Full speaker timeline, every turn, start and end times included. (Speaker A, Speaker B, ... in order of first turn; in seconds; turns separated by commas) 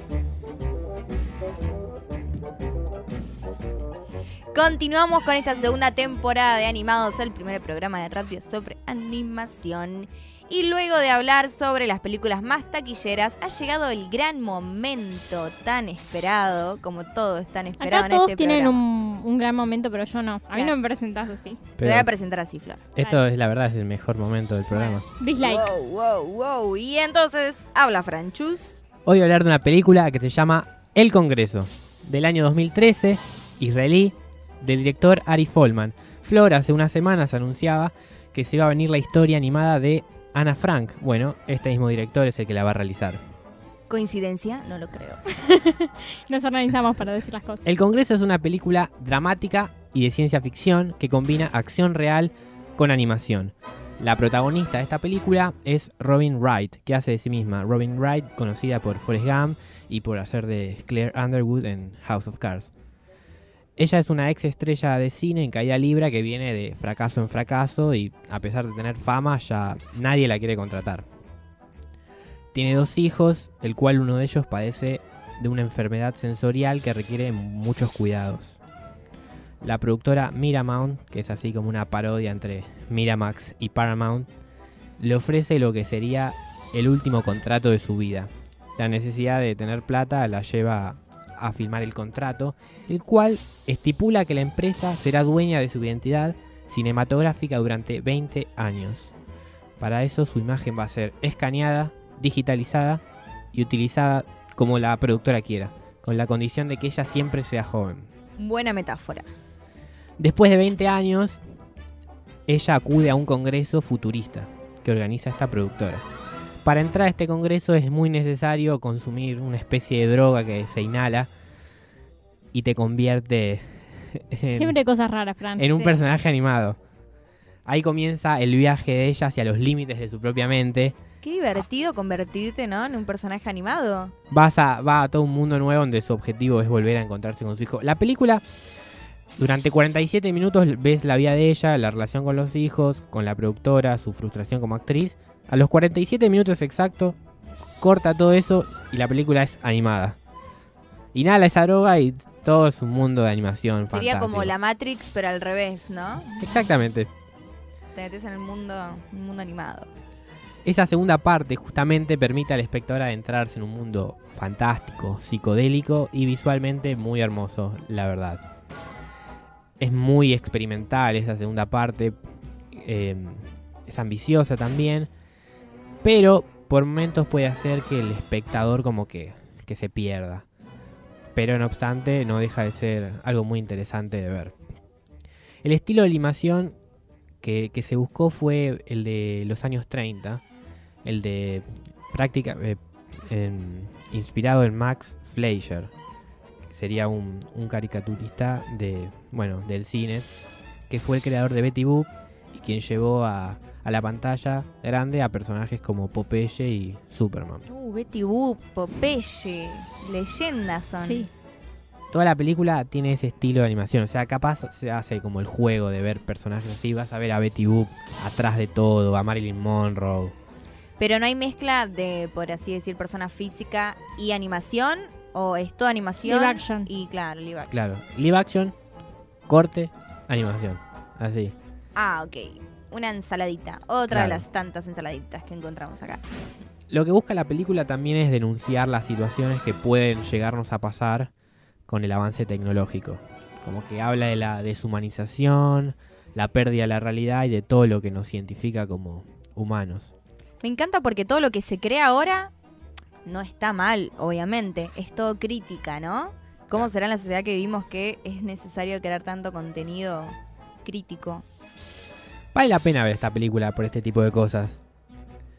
Speaker A: 4.5-18.8, Speaker B: 17.8-21.6, Speaker C: 21.8-22.1, Speaker A: 21.8-22.8, Speaker C: 22.9-25.0, Speaker B: 24.7-25.6, Speaker A: 25.4-28.8, Speaker C: 29.1-43.2, Speaker A: 43.9-45.3, Speaker B: 45.5-47.7, Speaker C: 47.6-62.7, Speaker C: 63.8-71.0, Speaker C: 72.5-78.6, Speaker C: 79.6-84.3, Speaker C: 85.0-99.1, Speaker C: 99.8-103.0, Speaker C: 103.5-108.1, Speaker A: 108.4-109.2, Speaker C: 110.2-111.4, Speaker C: 112.5-116.0, Speaker C: 116.6-121.3, Speaker C: 122.5-124.7, Speaker B: 124.5-125.6, Speaker C: 125.6-126.8, Speaker A: 125.7-126.0, Speaker C: 127.7-130.9, Speaker A: 131.2-134.1, Speaker C: 134.3-138.4, Speaker C: 139.4-147.2, Speaker C: 147.8-150.2, Speaker C: 151.1-154.5, Speaker A: 153.9-156.7, Speaker C: 156.4-157.1, Speaker A: 157.9-159.9, Speaker C: 160.6-168.4, Speaker C: 169.8-172.2, Speaker C: 172.7-175.1, Speaker C: 176.0-180.4, Speaker C: 181.3-184.5, Speaker C: 185.6-186.7, Speaker C: 187.4-190.4, Speaker C: 191.0-195.9, Speaker C: 196.7-200.3, Speaker C: 200.9-207.6, Speaker A: 207.7-211.3, Speaker B: 211.0-211.3, Speaker C: 212.1-220.3, Speaker A: 221.0-227.8, Speaker B: 226.2-226.9, Speaker C: 227.7-228.7, Speaker C: 229.5-231.5, Speaker A: 231.9-236.2, Speaker C: 234.1-234.4, Speaker C: 236.9-241.3, Speaker C: 241.9-250.1, Speaker A: 250.6-252.5, Speaker A: 253.2-261.4, Speaker C: 262.5-264.8